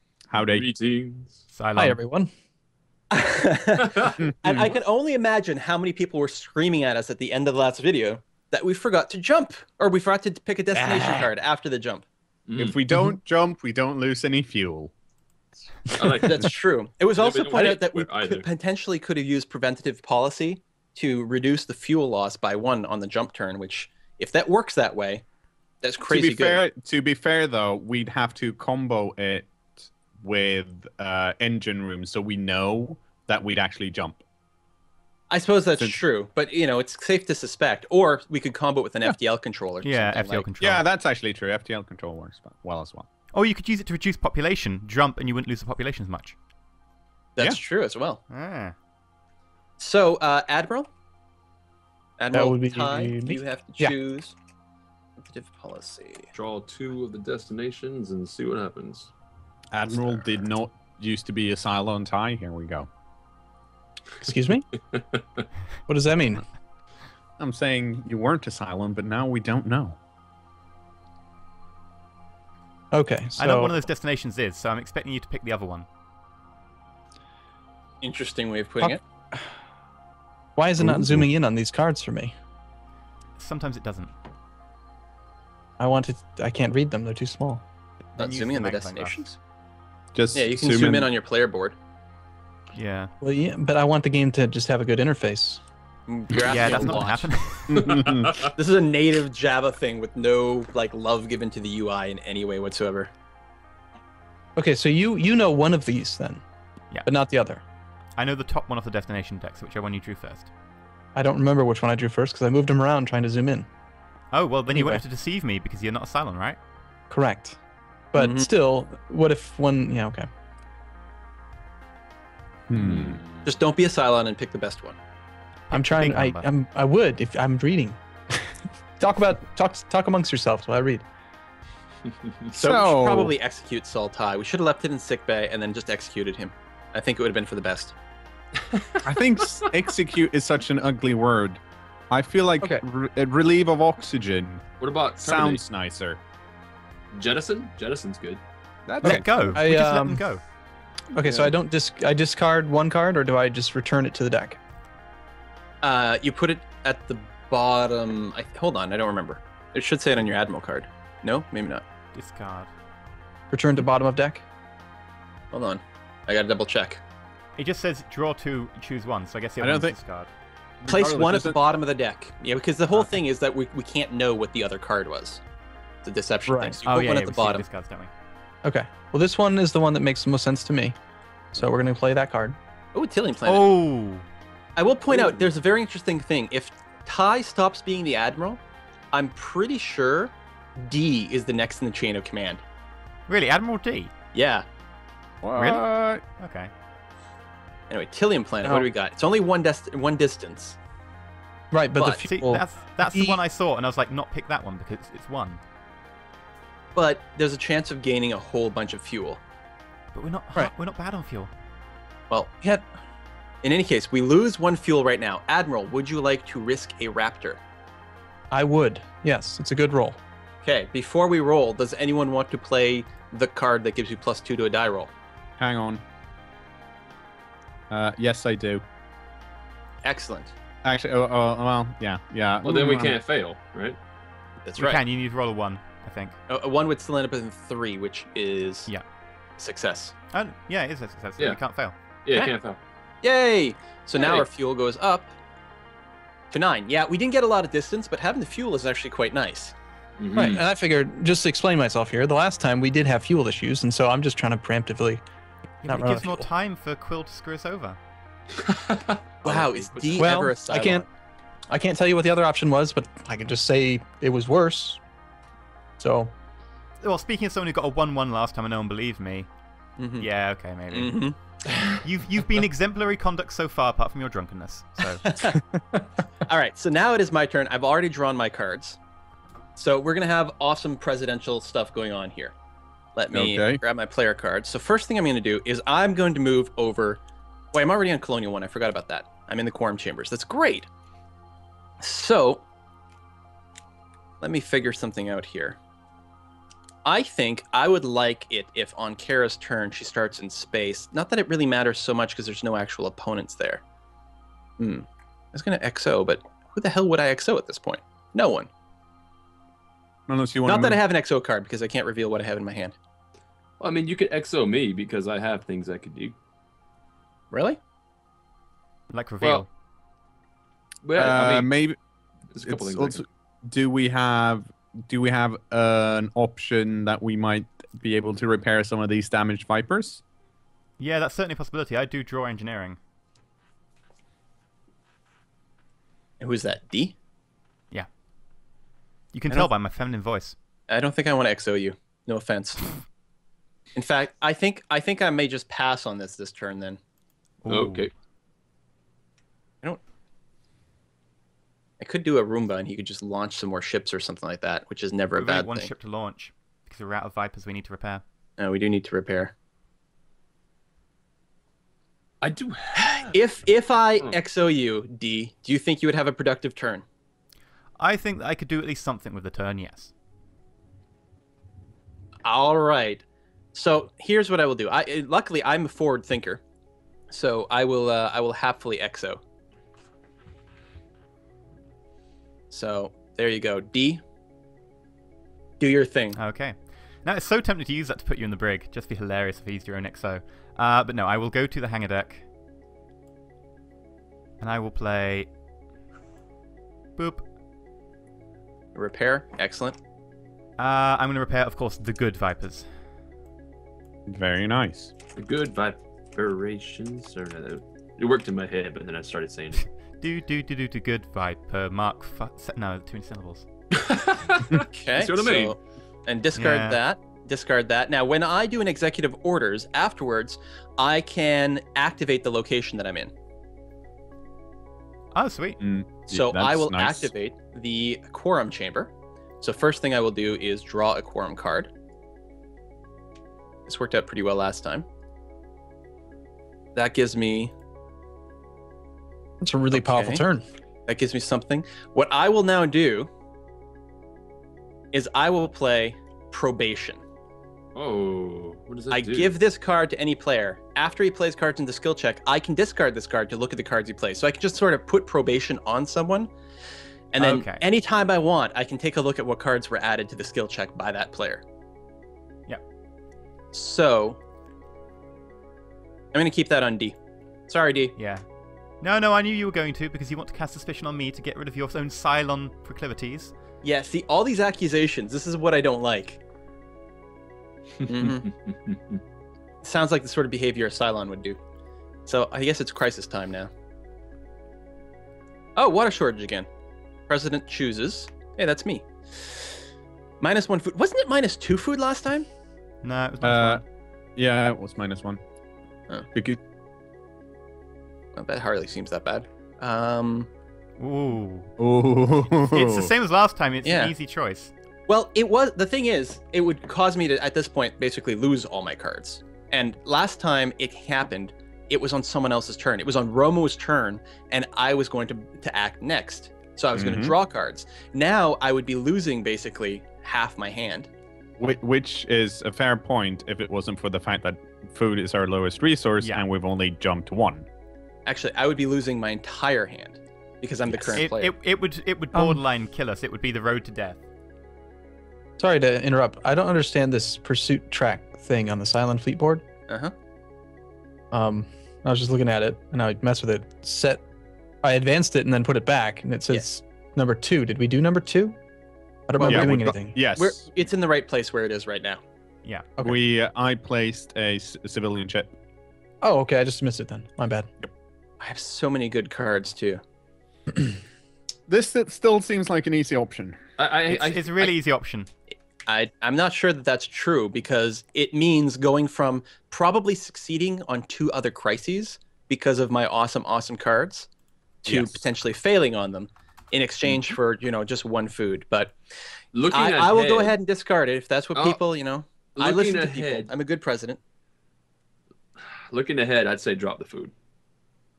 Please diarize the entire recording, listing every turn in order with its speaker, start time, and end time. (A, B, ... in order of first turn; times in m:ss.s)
0:00.3-0:00.7 A
0:00.3-0:01.4 B
0:01.5-0:02.0 C
0:01.8-0:02.3 D
0:03.1-0:12.0 E
0:03.8-0:04.2 B
0:04.2-0:04.7 A
0:12.5-0:12.8 B
0:12.6-0:14.9 A
0:15.9-0:16.6 B
0:16.2-0:25.2 E
0:17.1-0:18.4 B
0:25.8-0:26.6 E
0:26.1-0:34.2 A
0:35.3-0:40.4 E
0:39.8-0:40.8 C
0:40.6-0:43.1 A
0:43.3-0:46.4 C
0:47.4-0:48.2 E
0:48.3-0:48.7 C
0:49.8-0:50.9 E
0:52.2-0:54.3 E
0:52.3-0:54.0 D
0:55.2-0:56.3 E
0:56.3-0:59.1 B
0:59.7-1:02.9 A
1:04.2-1:04.6 D
1:05.9-1:06.4 D
1:07.4-1:10.0 A
1:12.9-1:13.8 D
1:13.4-1:15.9 C
1:18.0-1:19.0 E
1:18.8-1:19.5 D
1:20.6-1:22.3 D
1:20.8-1:21.3 A
1:23.4-1:24.1 C
1:25.8-1:27.6 D
1:28.2-1:29.3 C
1:28.2-1:29.4 E
1:30.1-1:31.1 A
1:30.3-1:31.8 E
1:32.7-1:33.1 C
1:33.2-1:35.6 D
1:36.1-1:37.3 E
1:36.4-1:37.9 C
1:37.7-1:38.4 A
1:37.7-1:38.5 B
1:38.5-1:43.1 E
1:44.6-1:46.4 D
1:47.0-1:47.6 D
1:48.2-1:50.5 C
1:51.1-1:53.7 D
1:54.3-1:56.6 C
1:54.7-1:55.0 D
1:57.1-1:57.6 D
1:58.1-2:00.3 D
1:58.2-1:58.5 E
2:02.7-2:03.2 A
2:02.7-2:03.5 B
2:03.4-2:05.0 E
2:05.7-2:06.5 C
2:05.7-2:11.0 D
2:12.5-2:13.3 A
2:12.5-2:17.9 E
2:18.7-2:19.1 B
2:19.0-2:24.6 A
2:24.8-2:25.6 B
2:25.2-2:26.2 A
2:27.1-2:28.4 B
2:28.9-2:29.6 A
2:29.0-2:30.2 D
2:29.0-2:30.4 C
2:31.1-2:34.6 D
2:35.8-2:41.8 E
2:42.1-2:42.7 C
2:43.5-2:44.4 D
2:45.5-2:47.0 E
2:47.6-2:50.3 C
2:49.6-2:50.0 A
2:50.8-2:51.6 A
2:50.9-2:55.4 E
2:56.0-2:57.6 E
2:56.4-2:56.8 D
2:56.8-2:58.1 C
2:58.6-3:01.0 D
3:01.5-3:02.6 D
3:02.9-3:03.7 E
3:03.4-3:04.2 C
3:04.8-3:08.6 E
3:09.1-3:12.6 E
3:13.3-3:14.1 C
3:14.3-3:14.7 E
3:15.4-3:16.2 A
3:15.5-3:15.8 C
3:16.4-3:16.7 C
3:17.9-3:20.8 E
3:21.7-3:23.4 D
3:22.0-3:22.2 E
3:22.2-3:25.6 C
3:26.9-3:29.4 E
3:30.1-3:31.5 C
3:32.3-3:32.8 E
3:33.6-3:37.6 E
3:38.5-3:40.2 D
3:40.6-3:45.1 E
3:45.6-3:46.0 A
3:47.9-3:48.8 A
3:50.0-3:50.5 E
3:50.8-3:53.2 A
3:52.6-3:54.0 B
3:54.6-3:55.0 E
3:54.8-3:56.4 C
3:56.5-3:58.9 E
3:59.6-4:00.1 E
4:00.3-4:02.0 C
4:02.2-4:02.8 B
4:03.2-4:05.3 E
4:04.2-4:04.4 B
4:06.5-4:09.7 E
4:10.2-4:10.6 B
4:10.3-4:15.2 D
4:10.4-4:10.6 E
4:15.8-4:18.0 C
4:15.8-4:16.5 D
4:18.6-4:20.3 B
4:19.4-4:21.1 E
4:20.2-4:21.0 D
4:21.7-4:25.0 D
4:26.0-4:26.3 D
4:27.0-4:29.5 C
4:30.0-4:30.3 E
4:30.2-4:31.1 C
4:30.9-4:31.4 E
4:32.0-4:35.2 C
4:35.2-4:35.6 E
4:36.4-4:39.0 E
4:39.8-4:42.5 E
4:43.1-4:47.2 E
4:43.3-4:43.8 A
4:47.7-4:50.9 E
4:52.0-4:52.6 E
4:54.4-4:55.8 E
4:57.0-5:03.8 E
5:04.8-5:08.7 E
5:10.3-5:11.0 A
5:10.6-5:12.9 E
5:13.8-5:16.4 B
5:17.5-5:17.8 E
5:19.1-5:19.7 C
5:21.0-5:21.7 B
5:21.2-5:22.0 A
5:22.5-5:23.2 B
5:22.6-5:30.2 A
5:31.0-5:33.0 C
5:36.4-5:37.2 E
5:39.3-5:40.6 C
5:40.9-5:42.9 E
5:43.9-5:47.0 E
5:47.6-5:48.1 C
5:47.7-5:48.1 B
5:52.0-5:55.9 E
5:55.4-5:58.2 C
5:58.6-5:59.5 E
6:02.4-6:03.4 B
6:03.3-6:07.0 E
6:08.0-6:10.1 C
6:12.4-6:16.6 E
6:17.3-6:19.4 E
6:22.7-6:24.2 E
6:25.8-6:26.4 E
6:26.4-6:32.4 C
6:34.6-6:35.5 C
6:37.2-6:37.4 C
6:38.9-6:40.0 E
6:40.8-6:42.9 C
6:44.3-6:45.1 A
6:45.4-6:49.8 B
6:50.2-6:53.6 C
6:53.9-6:55.8 B
6:54.8-7:03.3 E
6:56.6-6:57.0 C
7:05.3-7:05.8 C
7:05.8-7:07.3 A
7:06.3-7:11.9 E
7:13.9-7:15.0 E
7:16.9-7:17.7 E
7:19.6-7:20.6 D
7:19.9-7:20.4 E
7:21.1-7:23.3 E
7:25.1-7:27.2 E
7:27.9-7:29.6 B
7:29.1-7:36.5 E
7:37.3-7:41.6 E
7:37.4-7:37.8 C
7:43.7-7:44.4 E
7:46.3-7:47.2 E
7:47.7-7:48.1 E
7:48.2-7:48.4 C
7:49.0-7:53.5 C
7:53.8-7:56.4 E
7:58.0-7:59.2 B
7:58.0-7:58.5 E
7:59.8-8:01.6 E
8:02.2-8:03.7 E
8:05.8-8:06.7 E
8:07.3-8:09.6 E
8:10.4-8:12.5 E
8:13.0-8:13.8 C
8:13.4-8:13.8 A
8:14.4-8:15.4 A
8:16.3-8:16.6 A
8:18.3-8:20.5 E
8:21.0-8:21.7 C
8:21.8-8:23.1 A
8:22.7-8:24.7 C
8:23.8-8:24.1 E
8:25.1-8:41.1 E
8:36.9-8:37.4 A
8:41.6-8:47.7 A
8:48.2-8:51.5 E
8:50.9-8:51.2 A
8:51.1-8:54.2 C
8:52.3-8:52.6 D
8:55.6-8:59.6 D
8:59.9-9:00.1 E
9:01.3-9:04.2 D
9:04.8-9:08.6 D
9:09.3-9:10.2 D
9:09.4-9:09.8 E
9:09.4-9:10.6 A
9:10.3-9:12.2 E
9:13.0-9:15.5 A
9:16.2-9:17.7 D
9:18.4-9:20.0 E
9:21.7-9:23.6 A
9:23.8-9:24.7 B
9:24.1-9:25.3 C
9:25.8-9:34.3 E
9:34.8-9:35.2 A
9:34.8-9:39.0 E
9:39.5-9:40.6 B
9:39.7-9:44.2 E
9:41.5-9:41.8 B
9:42.5-9:43.5 B
9:45.7-9:47.3 B